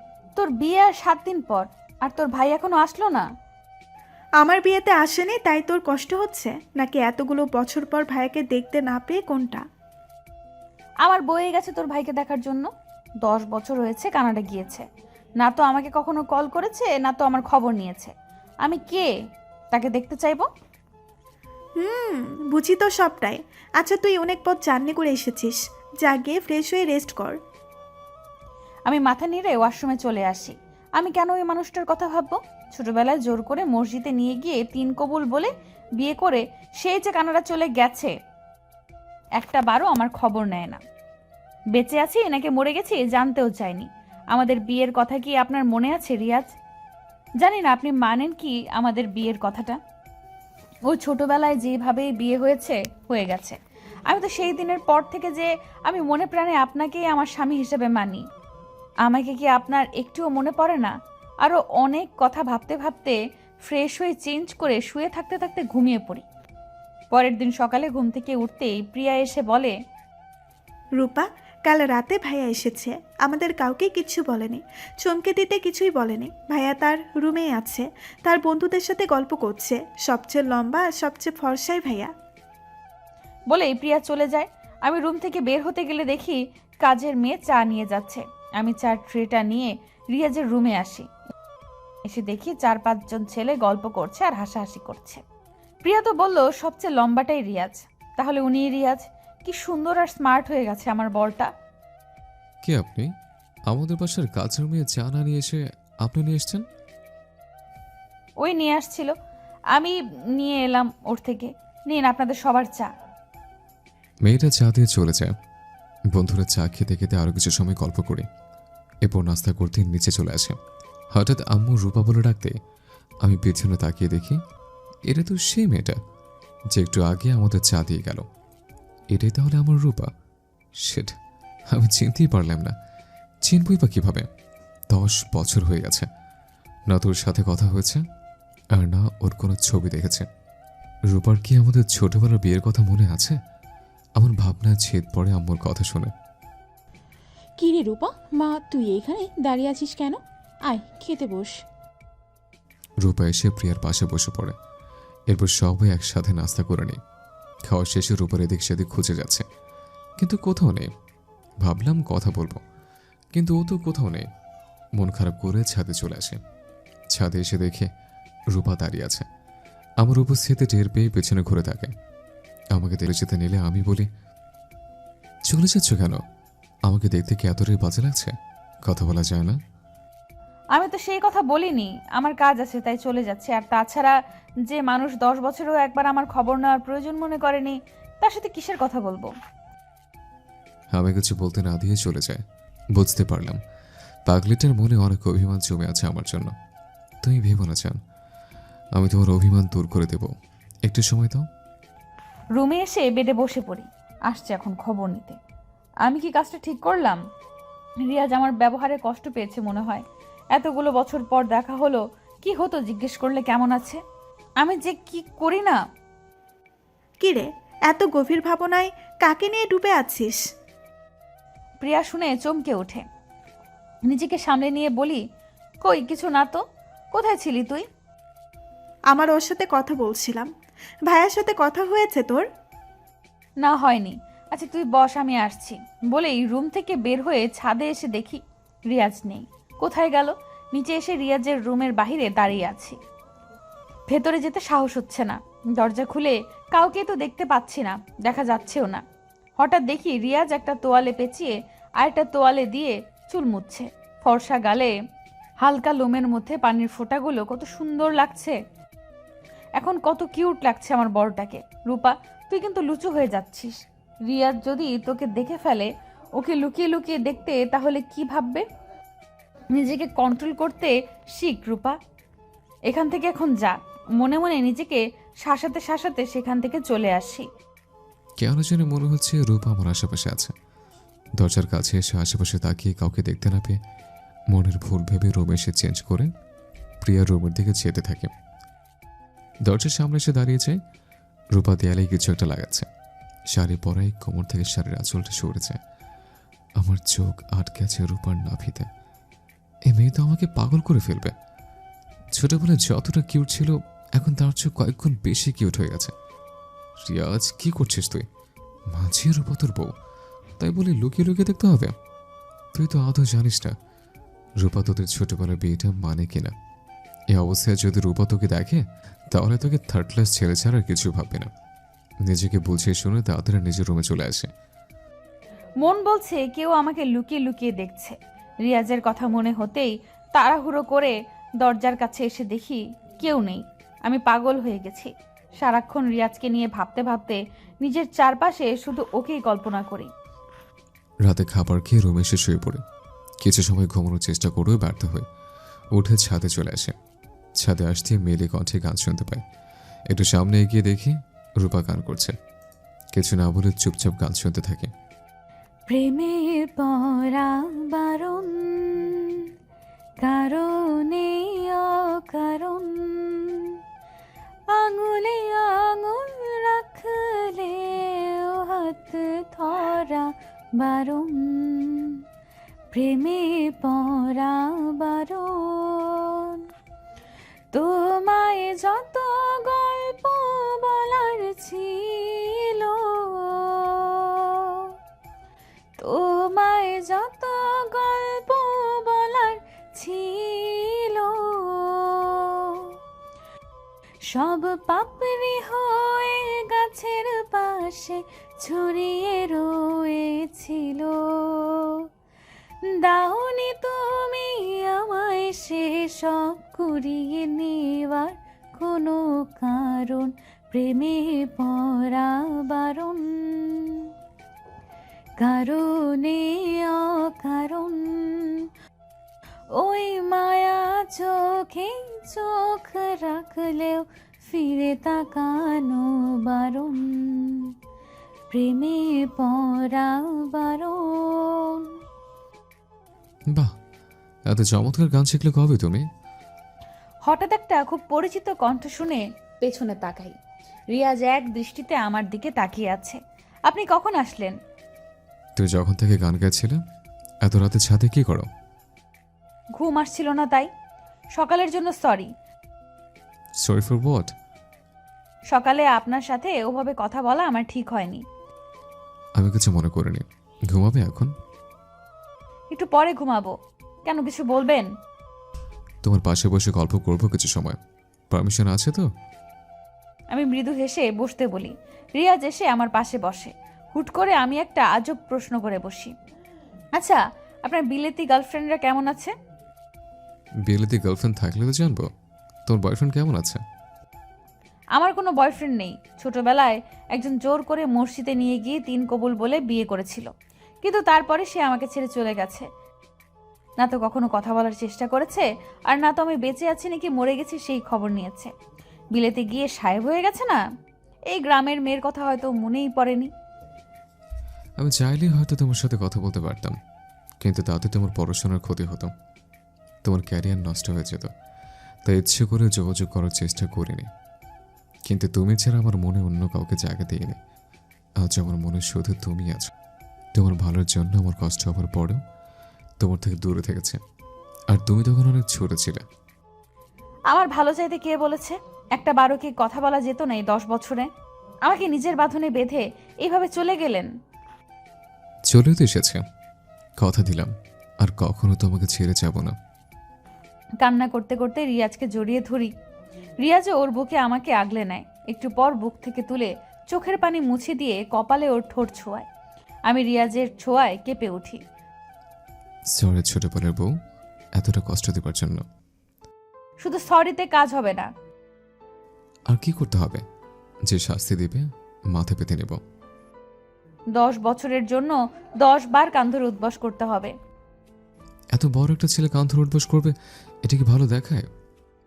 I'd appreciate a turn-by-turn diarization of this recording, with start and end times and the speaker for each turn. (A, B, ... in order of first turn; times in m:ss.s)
0:00.4-0:03.2 A
0:04.4-0:09.6 B
0:11.0-0:12.7 A
0:13.2-0:14.8 A
0:15.4-0:18.1 A
0:18.6-0:19.1 A
0:19.7-0:20.5 A
0:21.8-0:27.4 B
0:28.9-0:38.1 A
0:39.4-0:40.8 A
0:41.7-0:46.5 A
0:47.4-0:49.8 A
0:50.9-0:58.2 A
0:59.0-1:06.2 A
1:07.1-1:09.7 A
1:11.0-1:22.1 B
1:23.5-1:31.1 A
1:32.0-1:35.2 A
1:35.8-1:41.5 A
1:42.6-1:43.1 C
1:43.7-1:46.6 C
1:48.4-1:49.1 A
1:49.7-1:52.9 A
1:54.2-1:55.3 C
1:56.1-1:58.2 C
1:59.0-2:00.6 C
2:01.1-2:02.5 C
2:03.2-2:04.4 C
2:05.1-2:06.0 C
2:06.7-2:08.2 C
2:09.1-2:10.1 C
2:10.8-2:11.2 C
2:11.7-2:12.7 C
2:13.4-2:14.3 C
2:14.9-2:16.1 C
2:16.9-2:18.0 C
2:18.8-2:20.3 C
2:21.1-2:23.4 C
2:24.2-2:26.1 C
2:27.6-2:31.5 D
2:33.0-2:34.5 C
2:35.3-2:37.0 C
2:37.7-2:39.4 C
2:40.2-2:40.9 C
2:41.6-2:42.6 C
2:43.3-2:44.3 C
2:45.0-2:46.4 C
2:47.1-2:47.9 C
2:48.5-2:49.3 C
2:50.0-2:51.9 C
2:52.8-2:54.1 C
2:55.5-2:56.2 C
2:56.9-2:58.3 C
2:58.9-2:59.6 C
3:00.8-3:04.2 A
3:04.7-3:09.3 A
3:10.9-3:12.4 C
3:13.0-3:13.6 C
3:14.3-3:16.5 C
3:17.2-3:18.0 C
3:19.0-3:20.3 C
3:20.9-3:21.5 C
3:22.6-3:25.4 A
3:26.1-3:27.2 A
3:28.1-3:30.0 A
3:30.5-3:34.0 A
3:34.6-3:35.8 A
3:37.2-3:40.4 B
3:41.8-3:43.0 A
3:44.1-3:45.2 A
3:45.8-3:46.6 A
3:47.1-3:47.9 A
3:49.1-3:50.5 B
3:51.1-3:52.4 B
3:53.6-4:03.0 A
4:04.1-4:09.0 A
4:09.6-4:14.9 A
4:15.6-4:18.6 A
4:19.8-4:23.8 A
4:24.3-4:28.6 A
4:29.7-4:32.0 A
4:32.9-4:37.4 A
4:38.4-4:40.5 C
4:41.4-4:43.8 C
4:44.5-4:46.3 C
4:47.0-4:48.3 C
4:49.7-4:50.8 C
4:51.6-4:52.9 C
4:53.5-4:55.8 C
4:56.8-4:58.9 C
4:59.9-5:01.3 C
5:02.4-5:06.1 C
5:07.0-5:08.2 C
5:08.9-5:09.9 C
5:10.6-5:11.9 C
5:12.8-5:13.7 C
5:14.6-5:16.5 C
5:17.3-5:18.8 C
5:19.3-5:21.5 C
5:22.3-5:24.5 C
5:25.8-5:40.1 A
5:41.3-5:42.8 C
5:43.4-5:45.2 C
5:45.9-5:46.9 C
5:47.6-5:49.4 C
5:50.1-5:52.3 C
5:53.1-5:54.9 C
5:55.9-5:59.3 A
6:00.2-6:03.7 A
6:04.7-6:12.2 A
6:12.9-6:16.6 A
6:17.7-6:24.9 A
6:26.0-6:32.8 A
6:34.3-6:42.0 A
6:42.9-6:54.1 A
6:55.4-6:58.6 A
6:59.8-7:07.7 A
7:08.5-7:11.9 A
7:14.5-7:16.1 C
7:17.2-7:20.4 A
7:20.9-7:24.6 A
7:25.6-7:26.8 C
7:27.4-7:28.5 C
7:29.8-7:30.7 A
7:31.4-7:32.3 A
7:33.6-7:34.3 C
7:35.5-7:38.2 A
7:39.4-7:41.3 C
7:42.7-7:43.5 A
7:44.1-7:44.9 A
7:46.0-7:47.8 C
7:48.3-7:49.1 C
7:50.3-7:56.1 A
7:57.0-7:59.3 A
8:00.7-8:02.1 C
8:02.7-8:03.6 C
8:05.0-8:10.3 A
8:10.8-8:12.6 A
8:13.8-8:18.5 A
8:19.1-8:20.6 A
8:21.3-8:23.3 A
8:24.8-8:26.8 C
8:27.4-8:29.1 C
8:30.0-8:31.3 C
8:32.0-8:34.1 C
8:35.1-8:37.4 C
8:38.2-8:39.7 C
8:40.4-8:42.2 C
8:43.0-8:44.0 C
8:44.7-8:46.0 C
8:47.3-8:51.1 A
8:51.7-8:54.1 A
8:55.5-8:56.2 C
8:57.0-8:59.5 C
9:00.8-9:02.7 A
9:03.4-9:09.3 A
9:09.9-9:11.6 A
9:12.9-9:13.9 C
9:14.6-9:15.6 C
9:16.8-9:18.1 A
9:19.5-9:20.2 C
9:20.9-9:22.8 C
9:24.2-9:27.3 A
9:28.5-9:30.1 C
9:30.6-9:31.5 C